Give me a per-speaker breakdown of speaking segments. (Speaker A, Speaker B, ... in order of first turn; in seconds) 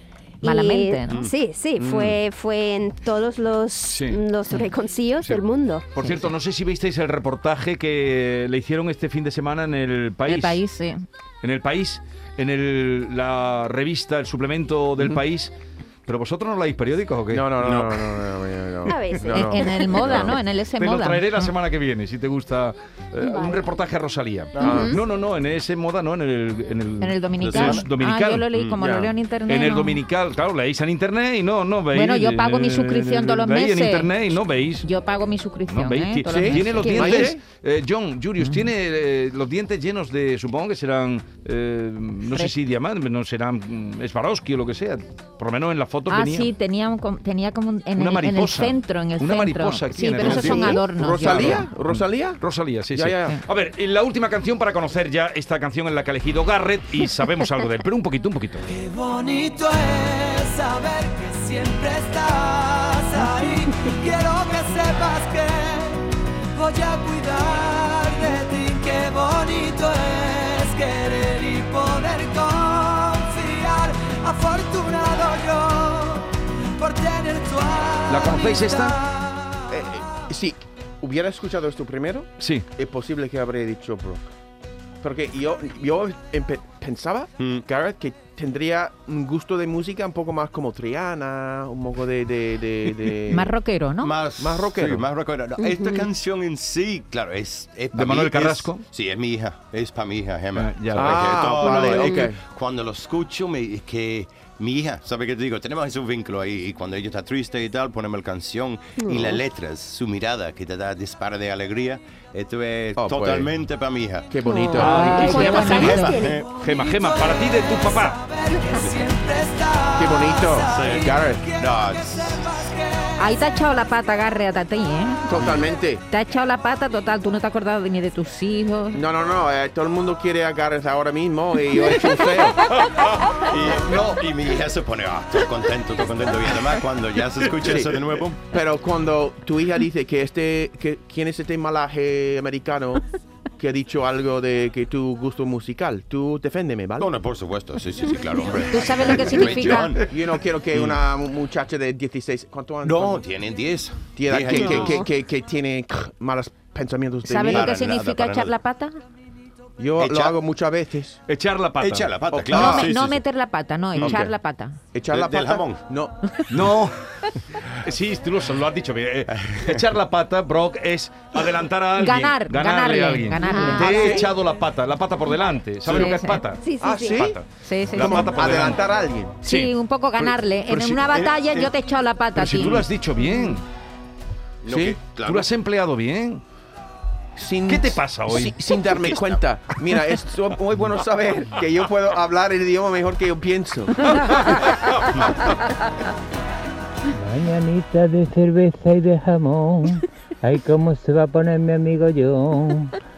Speaker A: 0.4-1.2, 6.0-6.3, 10.3-11.0, 19.3-21.5, 27.0-30.0, 31.9-34.1, 34.8-37.3, 38.4-38.7, 42.3-42.5, 46.1-51.7, 93.3-94.1, 114.7-116.0, 123.2-125.2, 126.1-129.0, 148.7-150.0, 157.2-159.0, 162.5-164.8, 172.0-174.2, 175.9-176.4, 177.6-178.3, 179.4-182.8
Speaker B: 0.4-5.9, 18.9-19.9, 23.3-23.6, 24.6-25.0, 95.6-96.0, 101.8-102.3, 109.0-109.3, 114.4-116.4, 176.6-177.3
Speaker C: 1.1-1.3, 17.6-18.0, 27.4-27.8, 50.2-50.8, 87.4-87.6, 94.0-114.3, 115.5-116.5, 120.7-122.5, 125.3-125.7, 133.4-138.4, 147.0-150.1, 150.7-151.0, 152.8-155.1, 157.4-158.5, 160.0-160.3, 161.8-163.2, 165.1-165.8, 169.3-169.8, 181.1-181.7, 184.6-185.5, 189.1-189.4
Speaker D: 1.8-2.1, 17.3-20.4, 24.6-25.0, 28.8-29.1, 36.2-37.4, 50.2-52.4, 52.9-53.3, 79.7-84.3, 85.0-93.5, 94.4-95.1, 100.9-102.4, 113.0-113.5, 114.3-115.7, 120.0-121.5, 125.3-126.0, 128.9-132.7, 137.6-143.0, 143.6-147.1, 149.4-153.2, 154.2-157.8, 159.8-161.2, 162.3-162.9, 164.0-164.3, 164.9-166.7, 173.4-174.3, 176.8-177.4, 177.9-179.7, 184.6-185.0, 187.3-194.4
Speaker E: 3.9-4.2, 6.0-10.6, 11.4-15.5, 16.1-17.5, 20.8-28.4, 29.5-34.9, 35.7-46.5, 48.0-58.6, 78.1-79.0, 82.4-82.7, 97.9-98.8, 100.5-101.8, 114.8-118.2, 161.3-162.1, 166.5-166.9, 167.8-178.8, 180.7-181.0, 182.3-183.6, 185.2-186.4, 187.7-188.6
Speaker F: 58.7-66.0, 66.5-79.8, 116.3-123.4
Speaker G: 197.1-202.9